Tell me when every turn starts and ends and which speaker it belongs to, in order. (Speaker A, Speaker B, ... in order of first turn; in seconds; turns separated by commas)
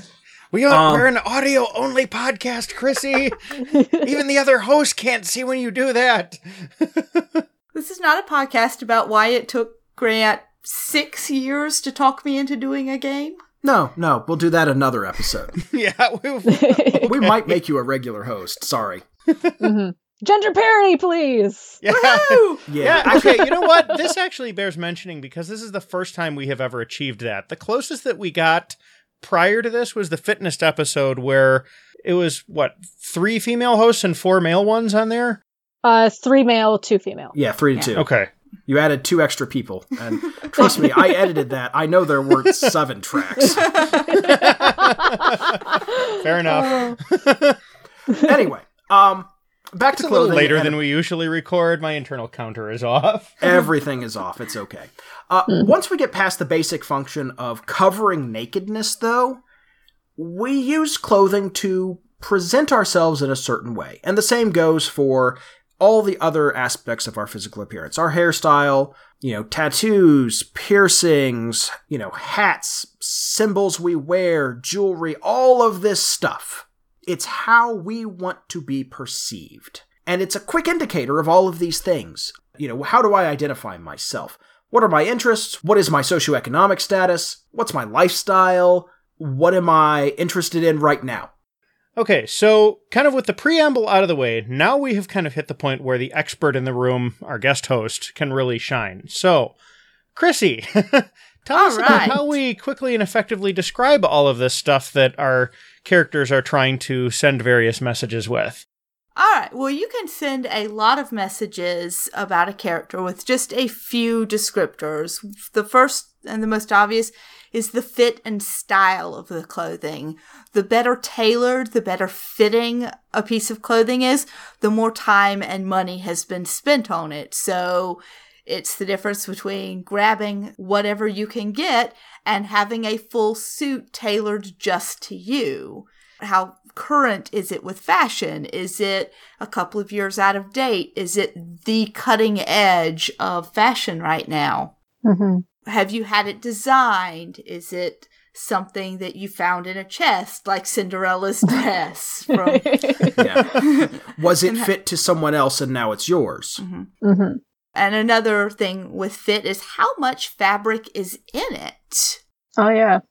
Speaker A: 0.5-7.4, Speaker B: 0.7-1.1, Speaker C: 3.7-4.0, Speaker D: 7.7-13.4, Speaker B: 13.6-15.6, Speaker A: 15.6-17.6, Speaker C: 16.5-17.1, Speaker B: 17.0-19.0, Speaker A: 19.3-19.6, Speaker C: 19.6-21.8, Speaker A: 21.8-35.4, Speaker D: 21.9-22.8, Speaker B: 22.7-23.3, Speaker C: 23.1-24.1, Speaker C: 35.8-37.3, Speaker B: 37.3-38.1, Speaker A: 38.0-38.3, Speaker B: 38.7-44.0, Speaker C: 40.6-41.3, Speaker A: 44.0-47.6, Speaker C: 44.1-47.0, Speaker D: 46.6-46.9, Speaker B: 48.1-50.8, Speaker A: 50.0-53.4, Speaker B: 53.4-59.4, Speaker B: 60.2-91.3, Speaker A: 92.0-99.6, Speaker A: 100.2-108.6, Speaker D: 101.5-102.2, Speaker C: 101.9-102.2, Speaker D: 109.2-144.7, Speaker C: 145.0-145.4, Speaker D: 145.7-153.9, Speaker C: 152.3-153.4, Speaker B: 153.2-156.6, Speaker D: 156.6-156.9, Speaker C: 157.0-157.4, Speaker D: 157.8-162.2, Speaker C: 162.6-163.0